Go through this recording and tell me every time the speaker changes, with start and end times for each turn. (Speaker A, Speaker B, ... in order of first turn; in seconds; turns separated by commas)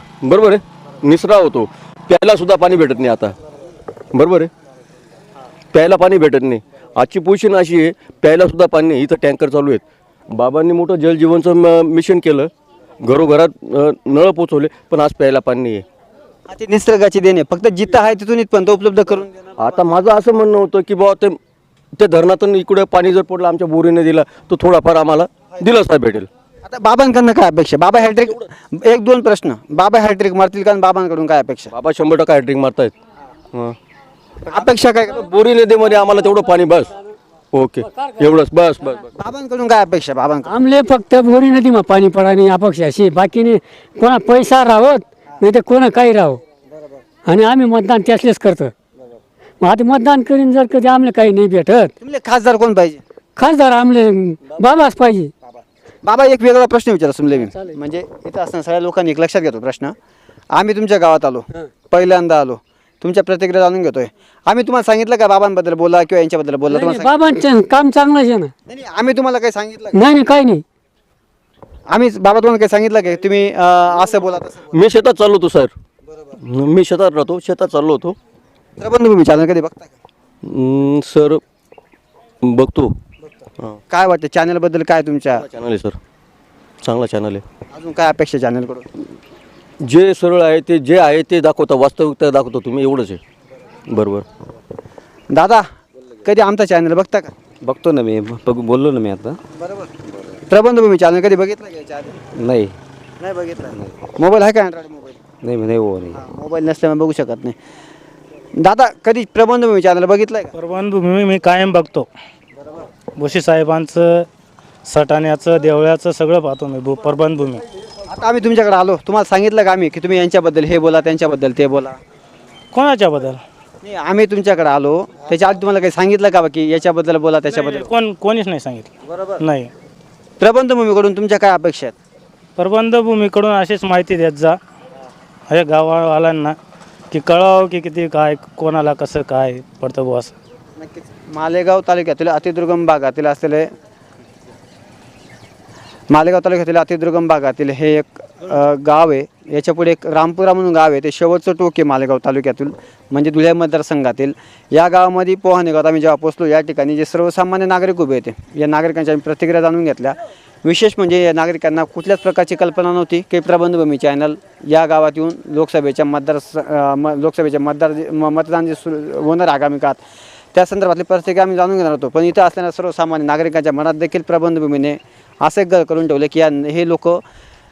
Speaker A: 0.2-3.3, Speaker A: 4.1-4.5, Speaker A: 5.7-12.5, Speaker A: 13.0-15.8, Speaker B: 16.5-19.7, Speaker A: 19.6-21.4, Speaker A: 21.9-26.3, Speaker B: 26.6-31.7, Speaker A: 31.7-32.9, Speaker B: 34.5-35.3, Speaker A: 35.2-36.9, Speaker A: 37.5-39.1, Speaker B: 39.1-40.5, Speaker C: 40.5-46.4, Speaker C: 47.3-48.7, Speaker C: 49.6-51.9, Speaker B: 52.0-53.0, Speaker C: 53.4-55.3, Speaker B: 56.0-59.9, Speaker B: 60.5-67.1, Speaker C: 66.7-68.5, Speaker B: 68.7-69.9, Speaker C: 69.9-70.6, Speaker B: 71.9-74.6, Speaker A: 74.7-75.7, Speaker A: 76.4-78.2, Speaker B: 78.8-79.9, Speaker A: 80.4-81.4, Speaker A: 82.4-82.9, Speaker B: 83.9-85.4, Speaker A: 85.3-86.0, Speaker A: 86.8-87.4, Speaker B: 87.7-88.8, Speaker A: 89.8-93.2, Speaker A: 93.9-94.2, Speaker B: 95.3-95.7, Speaker B: 96.2-97.3, Speaker D: 97.6-99.4, Speaker B: 99.6-99.9, Speaker B: 100.5-102.2, Speaker D: 102.4-102.7, Speaker B: 103.2-105.2, Speaker D: 105.4-106.2, Speaker B: 106.1-107.5, Speaker B: 108.5-110.5, Speaker E: 110.5-112.1, Speaker E: 113.2-114.3, Speaker E: 114.8-117.6, Speaker B: 118.1-122.0, Speaker E: 122.7-123.4, Speaker B: 123.8-127.9, Speaker E: 127.5-129.7, Speaker B: 130.4-131.9, Speaker E: 132.6-134.6, Speaker E: 135.5-136.6, Speaker E: 137.1-140.3, Speaker B: 140.8-143.7, Speaker B: 146.1-170.0, Speaker B: 170.5-177.2